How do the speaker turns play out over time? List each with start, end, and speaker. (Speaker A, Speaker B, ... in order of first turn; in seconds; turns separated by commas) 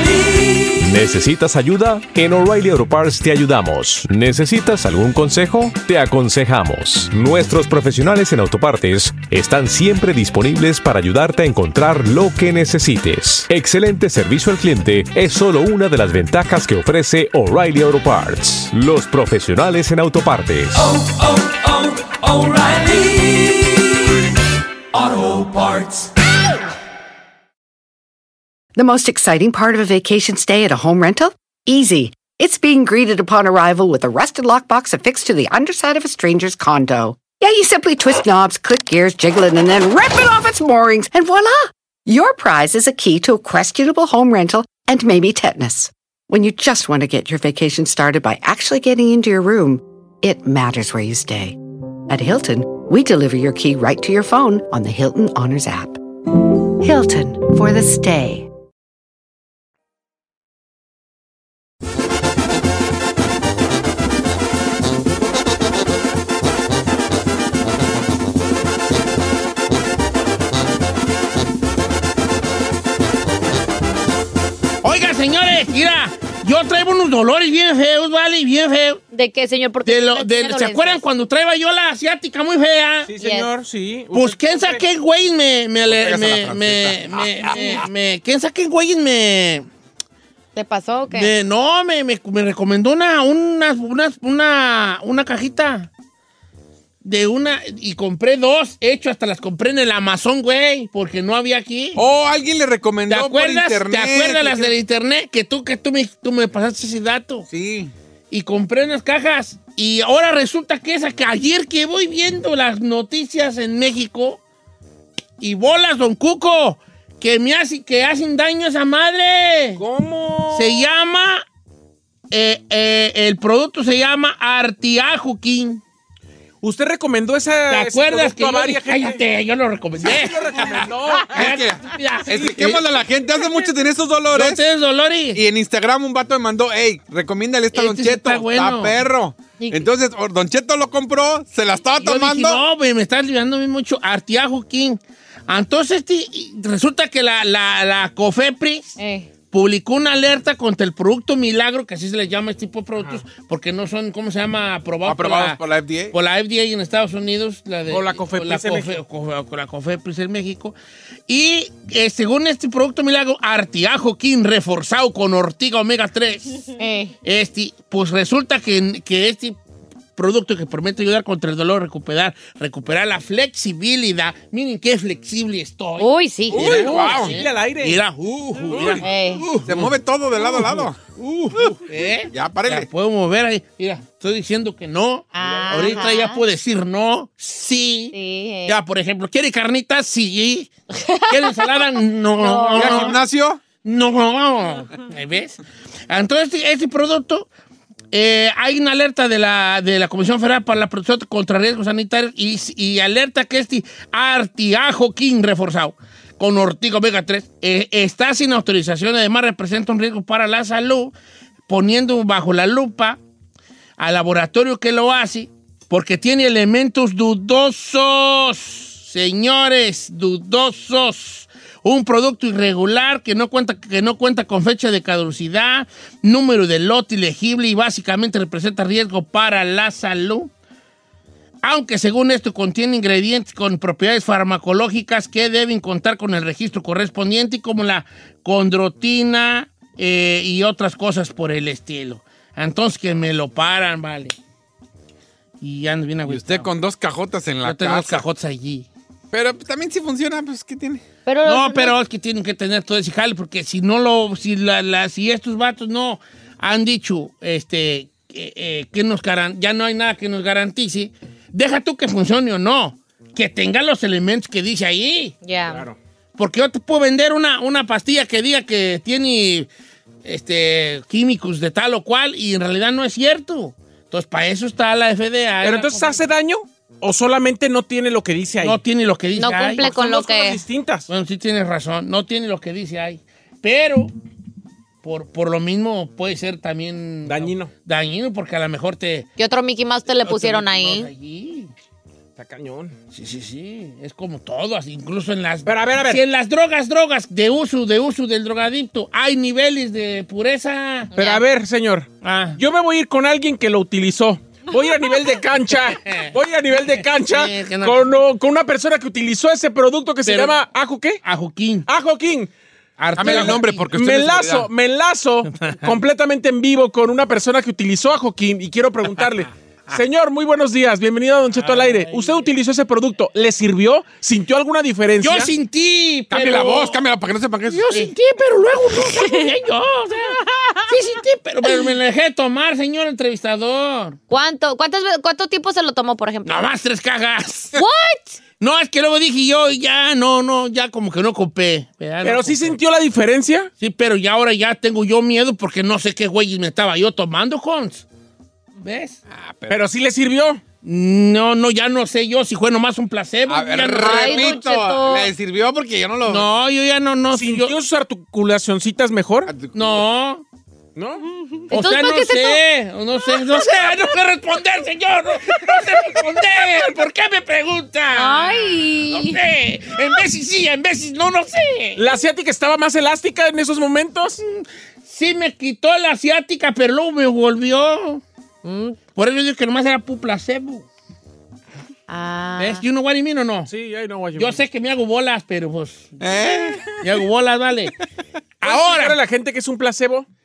Speaker A: 0.8-20.9, Speaker B: 28.8-56.0, Speaker B: 56.8-58.5, Speaker C: 74.8-79.0, Speaker D: 79.1-81.0, Speaker C: 79.8-83.1, Speaker E: 83.1-84.8, Speaker D: 83.2-83.5, Speaker C: 84.1-89.7, Speaker F: 85.9-87.8, Speaker D: 90.5-91.3, Speaker C: 91.1-95.9, Speaker C: 97.0-102.0, Speaker F: 102.0-104.7, Speaker C: 103.1-107.5, Speaker F: 107.5-107.9, Speaker C: 108.3-114.4, Speaker C: 115.4-119.8, Speaker E: 119.8-120.9, Speaker C: 120.5-121.5, Speaker C: 122.3-125.8, Speaker E: 126.6-129.2, Speaker C: 127.7-132.8, Speaker E: 130.0-131.5, Speaker F: 131.3-134.6, Speaker E: 132.3-132.7, Speaker C: 134.3-135.4, Speaker F: 135.3-142.6, Speaker C: 137.7-138.9, Speaker D: 139.6-139.9, Speaker C: 142.0-149.0, Speaker D: 149.0-149.3, Speaker C: 149.5-160.8, Speaker F: 155.1-156.1, Speaker E: 157.9-159.0, Speaker C: 161.3-166.6, Speaker D: 166.8-167.1, Speaker C: 167.2-169.6, Speaker C: 170.2-180.9, Speaker D: 176.0-177.1, Speaker E: 176.5-178.0, Speaker F: 176.6-177.3, Speaker E: 178.7-179.1, Speaker D: 179.0-179.5, Speaker F: 179.6-181.0, Speaker E: 181.2-181.8, Speaker C: 181.6-190.7, Speaker F: 182.3-182.9, Speaker D: 185.3-186.4, Speaker D: 188.1-188.8, Speaker D: 190.9-191.8, Speaker C: 191.3-193.2, Speaker D: 192.3-193.2, Speaker F: 192.8-193.6, Speaker C: 193.8-197.5, Speaker C: 198.1-211.1, Speaker C: 211.7-213.2, Speaker C: 214.0-230.5, Speaker C: 231.6-244.3, Speaker C: 245.6-246.7, Speaker F: 246.3-248.2, Speaker C: 247.6-248.9, Speaker F: 249.3-251.0, Speaker D: 251.3-252.0, Speaker C: 251.4-265.4, Speaker D: 265.4-265.9, Speaker E: 265.7-266.0, Speaker C: 266.4-269.7, Speaker C: 270.2-276.2, Speaker E: 275.6-278.8, Speaker C: 278.6-279.9, Speaker D: 279.4-280.6, Speaker E: 279.8-281.1, Speaker C: 281.1-284.1, Speaker C: 285.0-289.3, Speaker E: 287.3-287.7, Speaker D: 289.4-291.1, Speaker C: 290.2-291.7, Speaker E: 292.4-292.9, Speaker C: 293.1-301.1, Speaker E: 295.7-296.2, Speaker E: 301.2-311.2, Speaker D: 301.2-301.4, Speaker C: 302.2-302.6, Speaker C: 307.2-308.1, Speaker C: 310.2-310.6, Speaker C: 311.2-311.9, Speaker E: 311.9-312.5, Speaker C: 313.0-313.9, Speaker F: 313.2-314.7, Speaker E: 313.2-325.5, Speaker C: 321.5-322.4, Speaker C: 325.2-327.0, Speaker F: 326.3-328.1, Speaker C: 327.7-334.2, Speaker D: 329.0-329.5, Speaker D: 334.3-336.7, Speaker C: 336.4-337.8, Speaker D: 337.8-338.4, Speaker C: 338.6-342.8, Speaker E: 342.2-343.7, Speaker C: 343.8-348.1, Speaker C: 348.8-349.2, Speaker F: 349.3-349.8, Speaker E: 349.7-350.6, Speaker C: 350.8-354.6, Speaker F: 353.5-356.5, Speaker D: 354.0-355.3, Speaker C: 356.3-357.8, Speaker E: 357.3-359.5, Speaker F: 359.5-359.8, Speaker C: 359.7-360.4, Speaker E: 361.0-361.4, Speaker D: 361.7-362.6, Speaker C: 361.7-372.1, Speaker D: 363.4-363.9, Speaker D: 368.1-369.4, Speaker E: 372.0-374.4, Speaker C: 374.4-378.2, Speaker D: 378.6-379.0, Speaker C: 379.1-380.9, Speaker D: 382.1-382.9, Speaker C: 382.6-383.7, Speaker E: 383.7-384.6, Speaker C: 384.4-387.9, Speaker F: 386.2-387.0, Speaker C: 388.6-389.2, Speaker E: 388.6-390.3